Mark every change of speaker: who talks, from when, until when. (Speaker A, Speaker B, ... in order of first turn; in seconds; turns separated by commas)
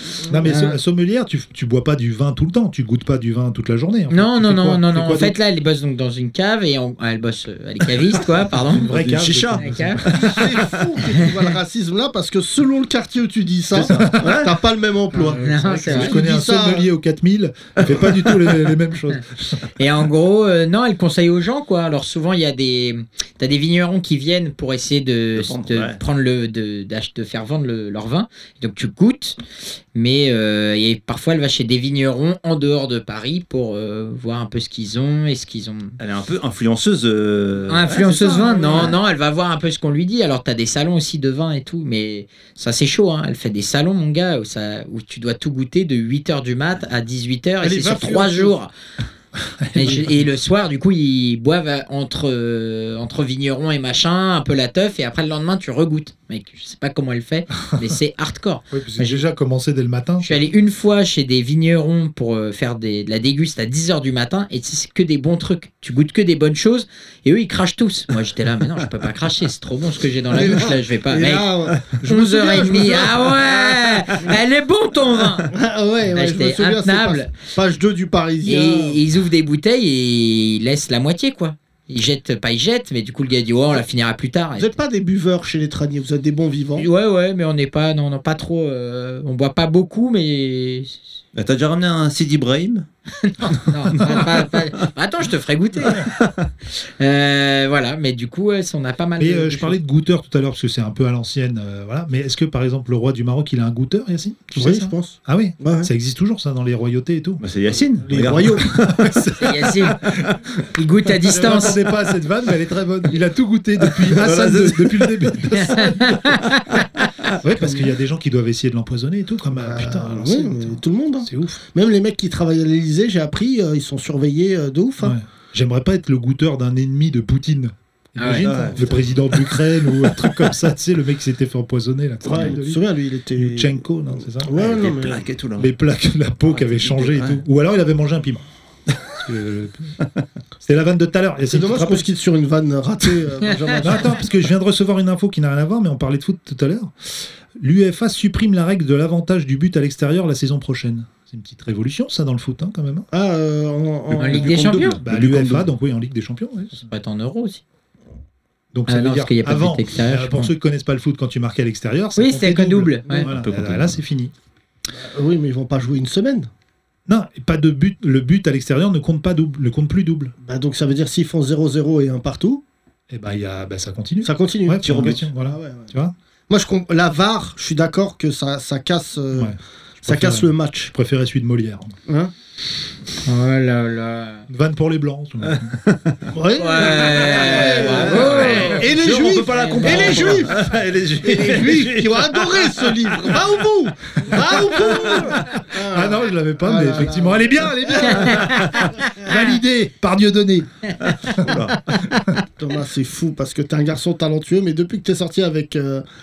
Speaker A: 0.3-5.4, Speaker B: 0.4-0.8, Speaker B: 4.1-8.9, Speaker A: 8.6-10.6, Speaker C: 8.7-10.6, Speaker B: 9.6-10.1, Speaker D: 10.1-16.9, Speaker C: 13.7-14.5, Speaker A: 13.8-14.5, Speaker A: 15.1-19.6, Speaker B: 15.4-16.2, Speaker C: 17.8-18.5, Speaker B: 19.8-29.4, Speaker C: 25.4-26.0, Speaker B: 29.9-36.0, Speaker C: 36.0-38.0, Speaker B: 37.7-48.7, Speaker D: 37.9-39.0, Speaker D: 47.6-48.5, Speaker A: 49.6-50.2, Speaker B: 49.7-59.2, Speaker A: 58.7-60.4, Speaker B: 60.2-71.5, Speaker D: 70.3-74.3, Speaker B: 72.0-75.5, Speaker D: 75.5-79.0, Speaker B: 76.1-77.3, Speaker B: 78.4-84.7, Speaker D: 84.6-86.8, Speaker B: 86.8-91.0, Speaker C: 91.3-92.8, Speaker B: 93.2-96.1, Speaker C: 93.9-94.5, Speaker C: 95.9-96.3, Speaker B: 96.8-99.8, Speaker A: 99.2-107.4, Speaker D: 104.5-105.9, Speaker C: 107.4-109.1, Speaker D: 108.1-108.8, Speaker A: 108.2-110.4, Speaker B: 109.4-110.0, Speaker B: 110.7-111.8, Speaker A: 111.1-116.4, Speaker C: 114.0-115.3, Speaker B: 115.5-116.9, Speaker A: 117.4-121.6, Speaker D: 119.5-125.2, Speaker A: 125.0-132.8, Speaker B: 128.2-128.5, Speaker C: 128.4-129.5, Speaker D: 132.2-135.3, Speaker A: 133.3-134.5, Speaker C: 134.5-135.7, Speaker A: 135.6-138.4, Speaker C: 136.4-137.4, Speaker A: 139.1-140.0, Speaker A: 140.6-142.1, Speaker D: 141.5-144.2, Speaker A: 143.8-153.1, Speaker D: 153.1-154.5, Speaker C: 154.1-155.7, Speaker B: 154.2-155.0, Speaker A: 154.6-156.9, Speaker B: 156.7-157.6, Speaker A: 158.7-164.3, Speaker B: 158.9-160.5, Speaker B: 162.2-163.3, Speaker C: 163.2-164.0, Speaker D: 164.9-166.5, Speaker A: 167.1-170.3, Speaker D: 170.4-172.6, Speaker A: 173.1-176.1, Speaker D: 174.2-175.9, Speaker C: 174.8-175.2, Speaker D: 176.5-180.9, Speaker A: 179.3-182.0, Speaker D: 182.1-182.3, Speaker B: 183.2-184.4, Speaker A: 184.5-185.8, Speaker C: 185.5-186.3, Speaker D: 186.3-198.5, Speaker B: 186.6-190.4, Speaker C: 187.5-193.6, Speaker A: 188.0-188.9, Speaker A: 194.3-200.7, Speaker C: 194.3-195.6, Speaker C: 198.3-198.8, Speaker C: 201.0-202.0, Speaker D: 202.4-206.0